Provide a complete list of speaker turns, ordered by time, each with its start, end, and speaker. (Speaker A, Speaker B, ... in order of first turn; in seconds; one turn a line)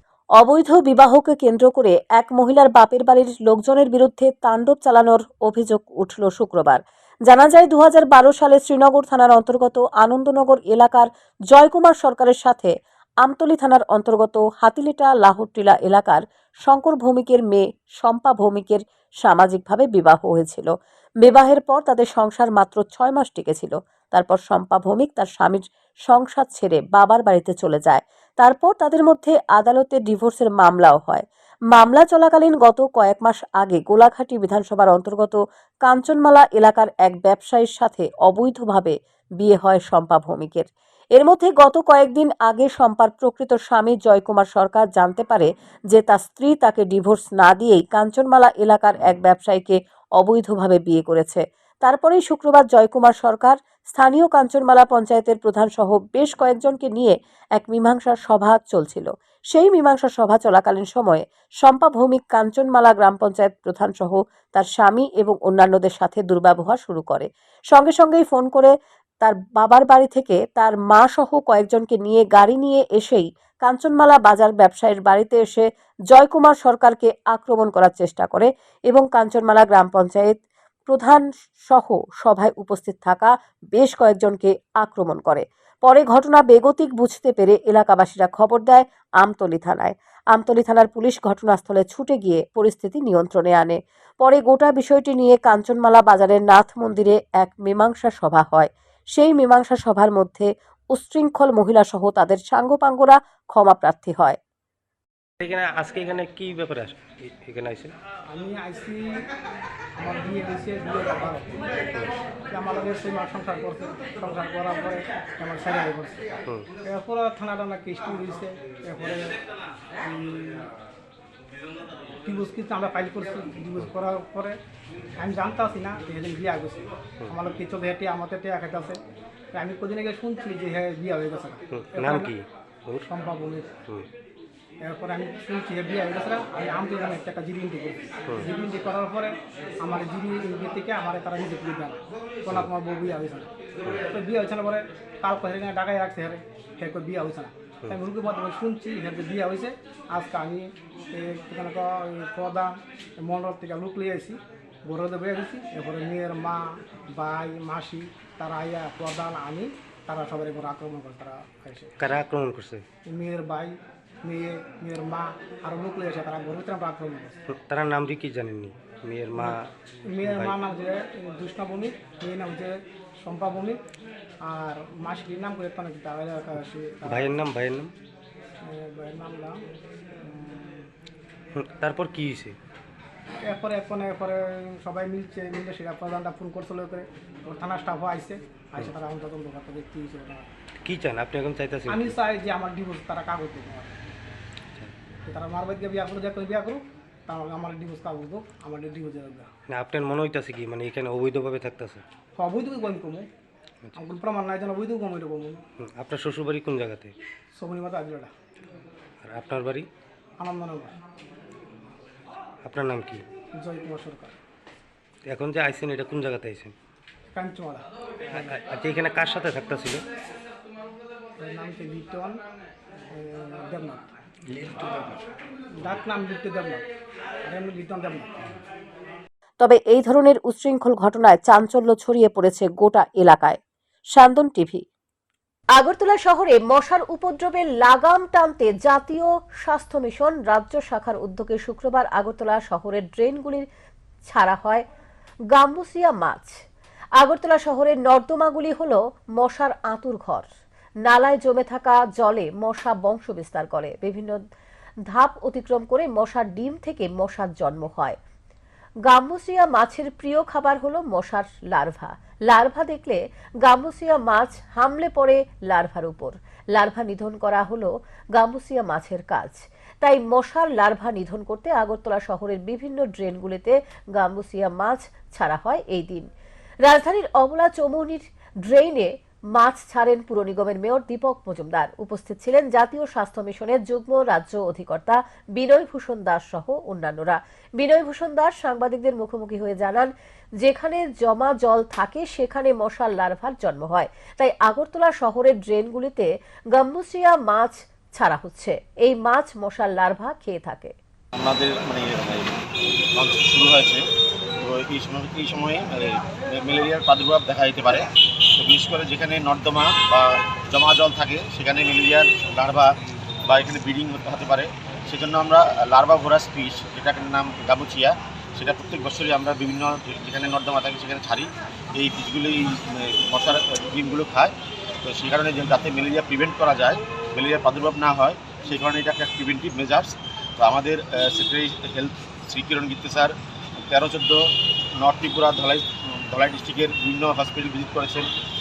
Speaker A: 0.4-104.4
Speaker B: 105.4-107.9
Speaker C: 108.3-109.0
Speaker C: 110.0-111.6
Speaker C: 112.5-116.2
Speaker C: 116.8-119.3
Speaker C: 120.1-120.6
Speaker C: 122.2-124.6
Speaker C: 125.2-129.0
Speaker C: 129.5-132.3
Speaker B: 131.7-133.1
Speaker C: 133.1-133.7
Speaker C: 134.8-161.9
Speaker B: 162.0-162.8
Speaker C: 163.1-167.3
Speaker B: 167.5-170.6
Speaker C: 170.1-173.8
Speaker C: 174.4-177.3
Speaker B: 177.0-177.9
Speaker C: 178.6-179.6
Speaker C: 180.2-180.8
Speaker B: 181.5-182.5
Speaker C: 183.4-190.5
Speaker B: 190.8-192.1
Speaker C: 191.9-194.0
Speaker C: 195.3-199.5
Speaker B: 199.7-202.0
Speaker C: 202.3-203.3
Speaker C: 203.9-205.6
Speaker B: 206.0-207.1
Speaker C: 207.6-208.3
Speaker B: 209.2-209.9
Speaker C: 210.4-210.9
Speaker B: 212.6-213.2
Speaker C: 213.6-214.3
Speaker B: 215.3-216.7
Speaker C: 217.3-217.8
Speaker B: 218.3-220.0
Speaker C: 221.4-222.4
Speaker C: 223.1-224.1
Speaker C: 225.8-226.8
Speaker C: 227.4-228.3
Speaker A: 229.6-233.6
Speaker A: 234.1-234.8
Speaker A: 235.7-243.7
Speaker A: 244.3-244.8
Speaker A: 245.5-246.5
Speaker A: 247.2-250.4
Speaker A: 251.0-254.4
Speaker A: 255.1-258.2
Speaker A: 259.1-276.3
Speaker A: 276.8-300.9
Speaker D: 301.4-302.6
Speaker D: 303.1-304.0
Speaker D: 304.6-312.9
Speaker D: 313.5-324.5
Speaker D: 325.0-333.3
Speaker D: 333.9-338.3